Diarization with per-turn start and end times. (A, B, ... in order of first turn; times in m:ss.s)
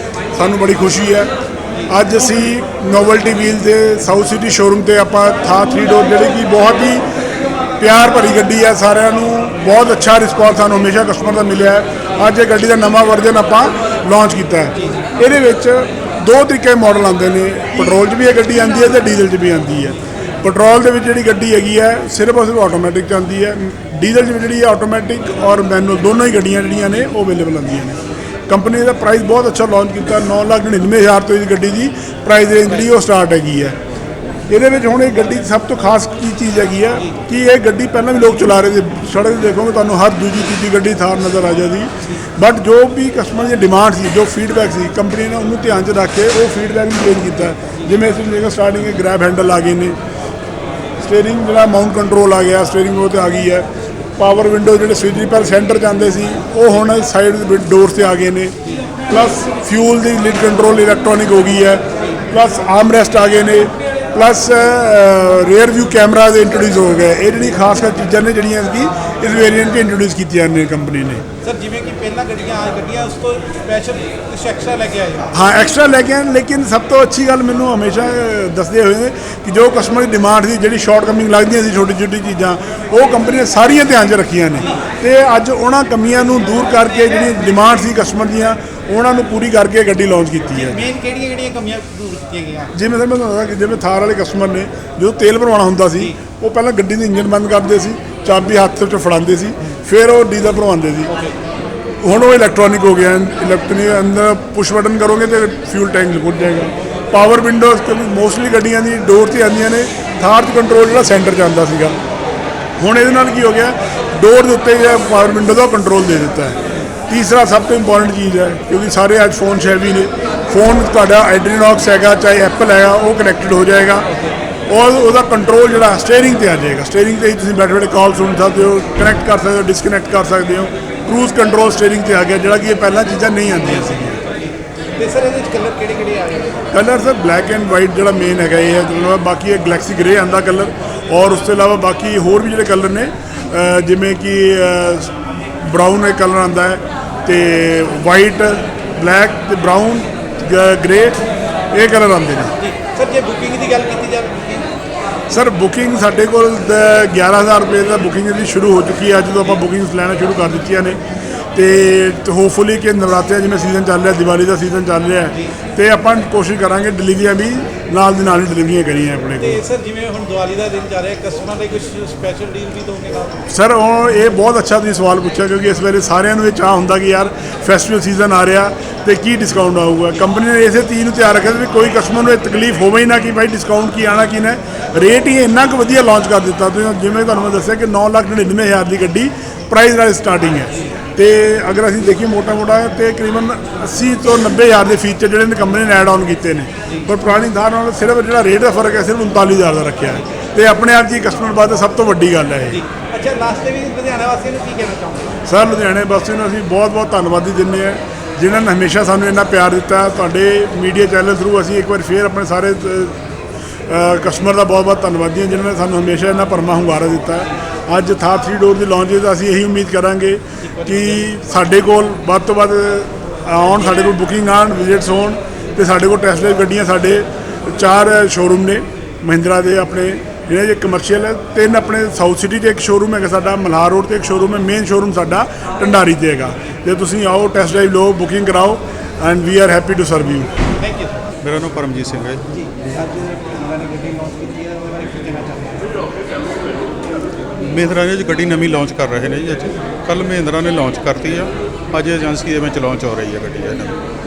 0:00.3-0:01.3 A
0:01.9-0:07.0 A
0:07.8-0:33.8 A
0:34.5-0:50.0 A
0:51.0-0:58.5 A
0:59.1-1:11.2 A
1:11.4-1:15.3 B
1:15.3-1:30.8 A
1:30.5-1:32.7 B
1:32.7-1:41.1 A
1:41.1-1:41.4 B
1:42.0-1:52.0 A
1:52.8-2:04.1 A
2:04.7-2:14.2 A
2:14.3-2:16.7 B
2:16.7-2:31.2 A
2:31.7-2:32.5 A
2:32.6-2:34.7 B
2:35.3-2:41.0 A
2:41.5-2:49.6 A
2:49.4-2:53.4 B
2:53.5-3:22.8 A
3:22.7-3:25.4 B
3:25.4-3:33.2 A
3:33.9-4:00.5 A
3:40.7-3:41.2 B
4:00.8-4:01.3 B
4:01.4-4:02.4 C
4:02.5-4:06.0 B
4:07.6-4:14.0 C